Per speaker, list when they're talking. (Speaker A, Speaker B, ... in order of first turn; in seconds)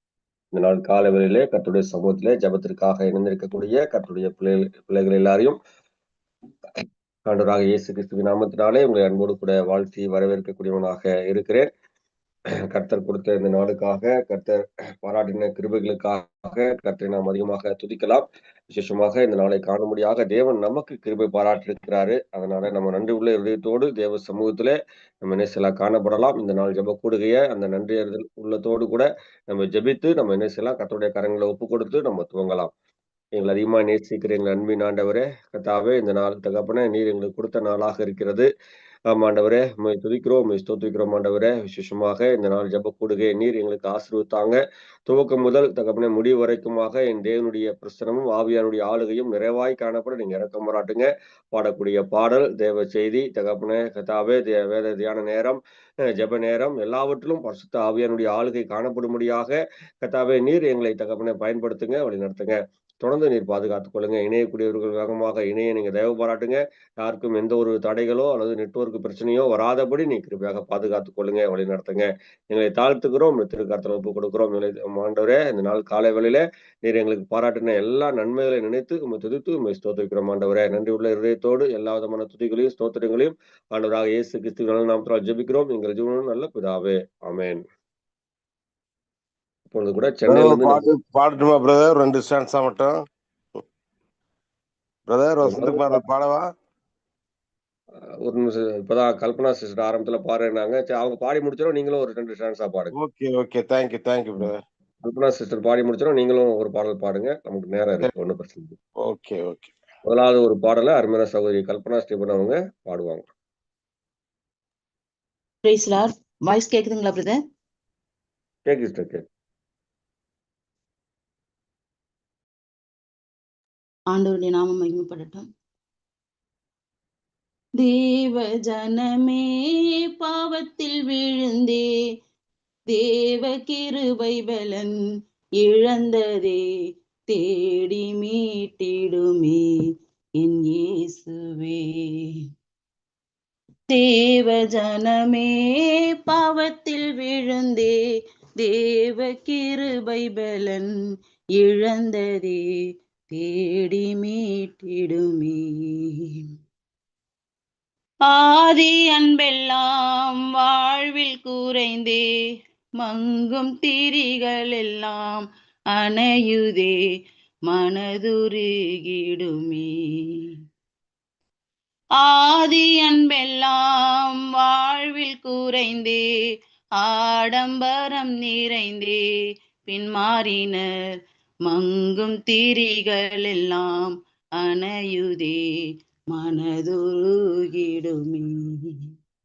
Speaker A: 0.5-5.6, 7.3-11.7, 12.7-32.7, 33.4-38.5, 39.1-55.6, 56.1-87.6, 89.7-90.8, 95.4-96.0, 98.2-102.9, 105.0-108.7, 110.0-113.2, 118.7-119.2
Speaker B: 90.3-93.0, 95.1-96.5, 102.9-104.6, 109.0-109.7
Speaker C: 115.6-117.4, 124.1-125.5, 127.8-129.5, 130.2-131.8, 132.9-134.9, 135.6-136.6, 137.3-139.7, 140.4-141.8, 143.9-145.5, 146.3-147.9, 148.6-150.9, 151.6-152.6, 153.3-155.6, 158.3-162.2, 163.0-165.4, 165.9-166.9, 167.7-169.9, 172.2-176.2, 177.0-179.2, 179.9-180.8, 181.7-185.6, 186.3-188.5